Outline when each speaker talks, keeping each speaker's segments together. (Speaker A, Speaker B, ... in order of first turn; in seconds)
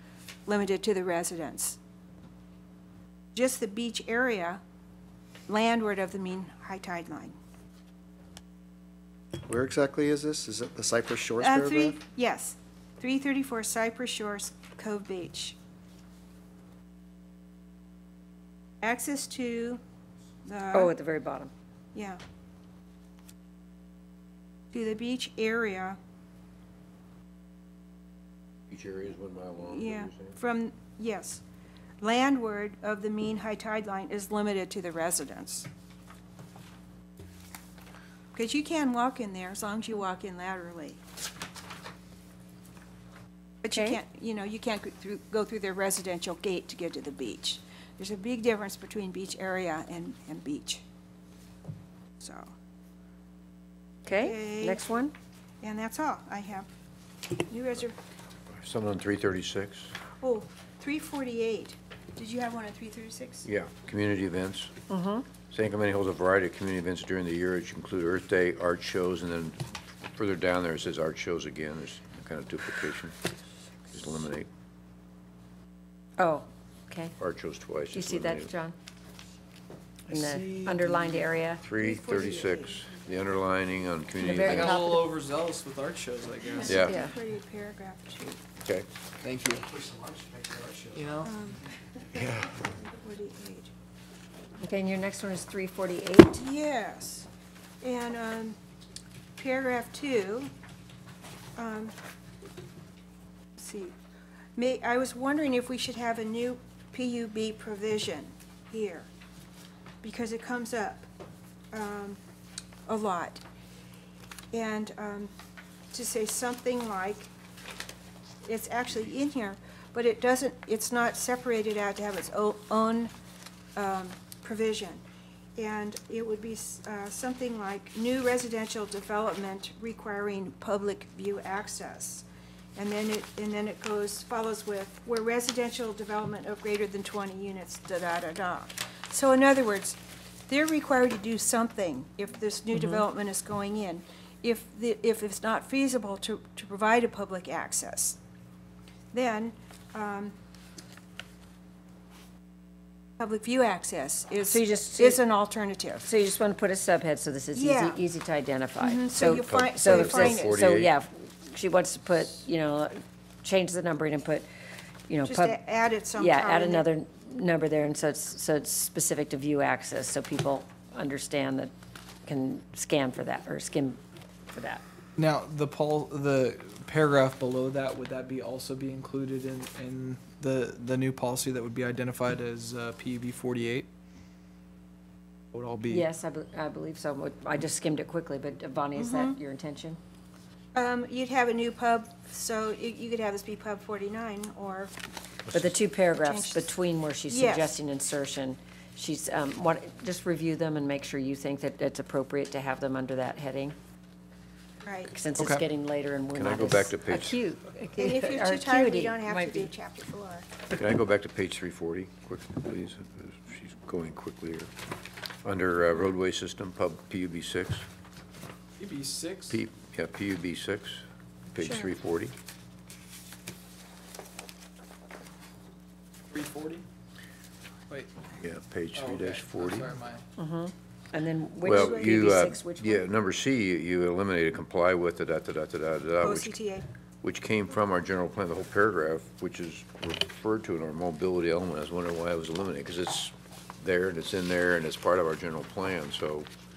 Speaker A: 0.5-1.8, 3.3-4.6, 5.5-7.3, 11.4-15.6, 18.8-19.8, 20.4-20.9, 21.9-22.2, 24.7-26.0, 29.6-31.4, 32.0-35.7, 38.3-41.0, 43.6-50.8, 52.2-52.5, 54.2-55.0, 55.6-56.7, 57.3-58.0, 60.2-63.5, 81.8-82.8, 86.6-88.4, 91.2-91.6, 92.2-93.7, 96.3-97.3, 97.8-98.6, 99.4-100.5, 101.5-101.9, 103.6-104.0, 104.6-109.1, 110.0-111.1, 111.7-112.2, 112.9-113.4, 114.5-115.3, 115.9-117.3, 118.4-123.1, 123.8-125.0, 125.5-148.2, 149.1-150.3, 153.2-156.1, 157.5-158.0, 158.8-160.6, 165.2-166.9, 188.9-189.3, 190.7-194.9, 196.1-196.7, 197.3-197.8, 204.8-205.1, 208.0-210.5, 221.6-221.9, 231.6-232.5, 236.2-236.8
Speaker B: 9.4-12.0
Speaker C: 20.7-21.5, 43.7-44.0, 54.0-55.1, 64.9-65.3, 76.2-77.1, 77.9-78.7, 80.1-81.6, 84.2-85.1, 94.6-96.4, 142.7-143.0, 154.5-155.2, 156.0-164.4, 165.1-165.6, 166.2-171.7, 172.2-174.0, 174.5-174.8, 185.9-190.0, 195.5-203.8, 205.1-209.7, 230.4-233.0
Speaker D: 28.7-30.4, 58.5-59.9, 63.4-64.7, 65.5-69.6, 70.1-73.2, 73.9-74.5, 77.2-78.5, 81.6-84.9, 86.6-86.9, 92.2-92.5, 159.2-160.9, 206.3-207.4, 210.7-214.7, 215.4-217.9, 219.5-222.3, 228.4-229.9, 231.6-236.5, 237.2-246.5
Speaker E: 80.1-81.1, 84.4-86.9, 89.2-91.3, 175.2-183.9, 185.5-186.1, 205.4-205.6, 218.8-219.6, 226.3-226.8, 227.9-228.1, 228.9-230.2